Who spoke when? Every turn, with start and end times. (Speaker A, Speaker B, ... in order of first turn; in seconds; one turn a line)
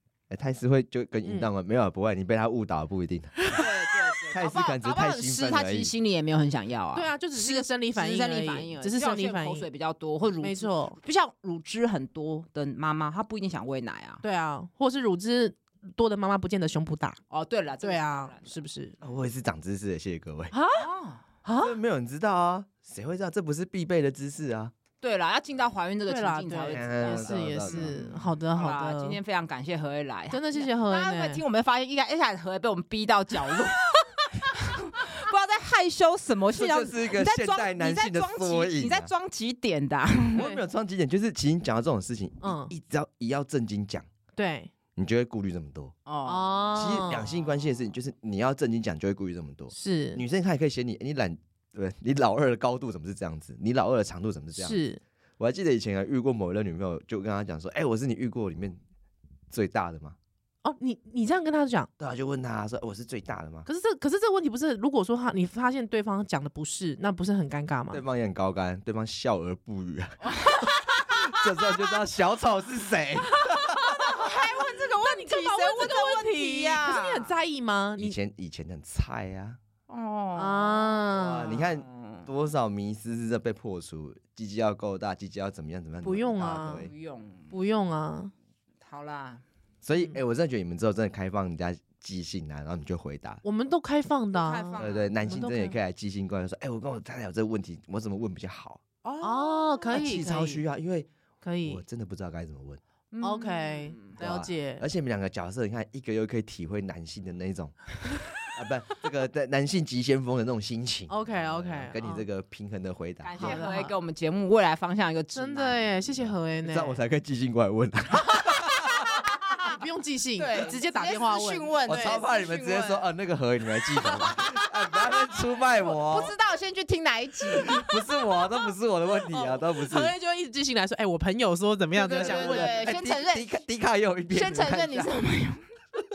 Speaker A: 0.3-3.7
Speaker B: 1.2-1.5
Speaker C: 3.5-14.2
Speaker A: 4.3-5.9
Speaker B: 6.9-9.7
Speaker B: 10.4-11.0
Speaker B: 14.2-17.2
Speaker C: 17.3-18.6
Speaker B: 17.8-18.9
Speaker A: 19.0-20.5
Speaker B: 20.5-20.9
Speaker C: 20.7-21.2
Speaker B: 21.4-21.7
Speaker A: 21.6-24.7
Speaker C: 25.0-40.5
Speaker B: 26.1-29.2
Speaker A: 26.7-27.9
Speaker B: 30.3-31.4
Speaker A: 36.5-39.1
Speaker A: 40.3-44.0
Speaker B: 42.4-42.7
Speaker B: 44.4-44.7
Speaker A: 44.9-45.9
Speaker C: 46.0-46.7
Speaker B: 46.2-47.3
Speaker A: 46.7-54.8
Speaker B: 49.7-50.2
Speaker B: 54.6-55.0
Speaker A: 55.4-58.8
Speaker A: 59.5-60.2
Speaker B: 60.6-61.9
Speaker A: 62.0-63.7
Speaker B: 63.6-68.0
Speaker A: 67.9-74.0
Speaker B: 73.8-78.2
Speaker C: 73.8-77.3
Speaker A: 78.0-79.6
Speaker C: 79.9-82.3
Speaker B: 80.3-81.6
Speaker A: 81.2-86.9
Speaker B: 86.0-86.9
Speaker C: 86.5-87.5
Speaker B: 87.5-88.3
Speaker C: 88.8-89.4
Speaker A: 89.8-93.4
Speaker B: 93.4-95.7
Speaker C: 94.3-95.1
Speaker A: 94.8-98.8
Speaker C: 99.0-100.5
Speaker B: 99.2-100.6
Speaker A: 99.9-101.1
Speaker B: 101.4-101.8
Speaker A: 101.7-102.8
Speaker C: 103.1-104.2
Speaker B: 103.2-104.8
Speaker A: 104.2-107.8
Speaker A: 108.5-113.7
Speaker B: 111.1-112.2
Speaker C: 113.2-115.9
Speaker B: 113.4-113.9
Speaker B: 115.3-117.0
Speaker A: 116.1-119.1
Speaker C: 118.9-119.8
Speaker B: 119.6-121.7
Speaker C: 120.4-123.0
Speaker A: 121.8-126.3
Speaker C: 124.0-125.2
Speaker C: 125.7-127.8
Speaker A: 127.5-130.1
Speaker B: 129.3-132.8
Speaker C: 131.9-133.5
Speaker A: 132.1-135.2
Speaker C: 134.3-135.6